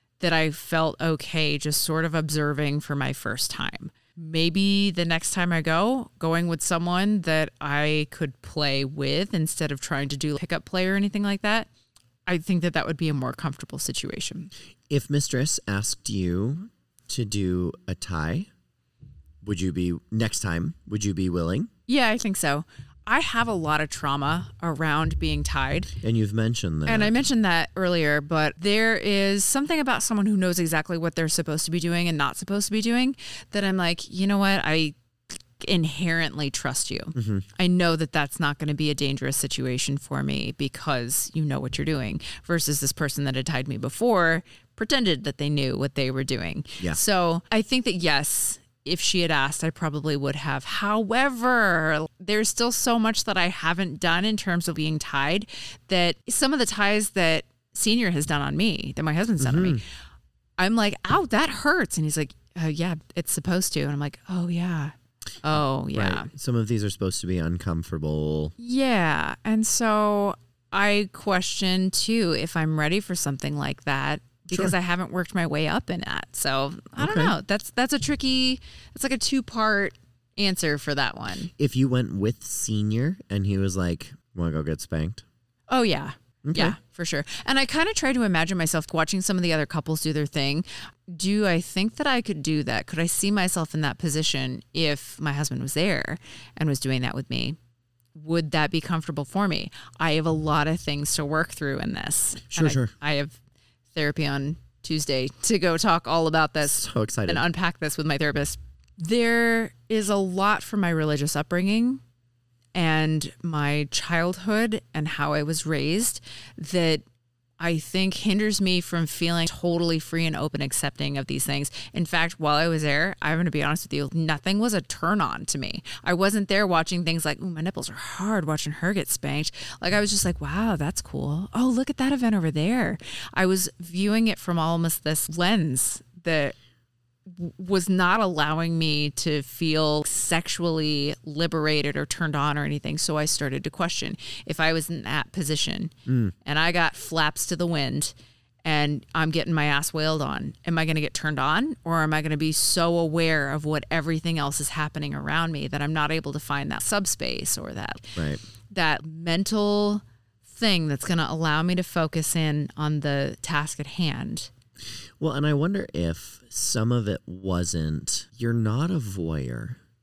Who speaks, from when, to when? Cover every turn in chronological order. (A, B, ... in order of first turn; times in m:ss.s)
0:00.2-0:11.7 A
0:12.2-0:14.5 A
0:14.9-0:18.5 B
0:19.4-0:21.7 B
0:21.9-0:25.9 A
0:26.0-0:27.1 B
0:26.8-0:34.9 A
0:35.6-0:59.8 A
0:37.2-0:37.4 B
0:59.4-0:59.8 B
1:00.6-1:06.3 A
1:05.5-1:08.5 B
1:08.6-1:21.5 A
1:17.0-1:17.3 B
1:21.6-1:25.2 B
1:25.7-1:37.6 A
1:26.4-1:26.8 B
1:38.1-1:43.4 A
1:42.5-1:42.9 B
1:43.9-1:52.0 A
1:46.6-1:47.4 B
1:52.7-1:57.0 A
1:57.6-2:16.5 A
2:17.3-2:28.1 A
2:26.0-2:26.3 B
2:28.6-2:38.2 A
2:38.2-2:38.4 B
2:38.7-2:44.5 A
2:45.2-2:49.8 B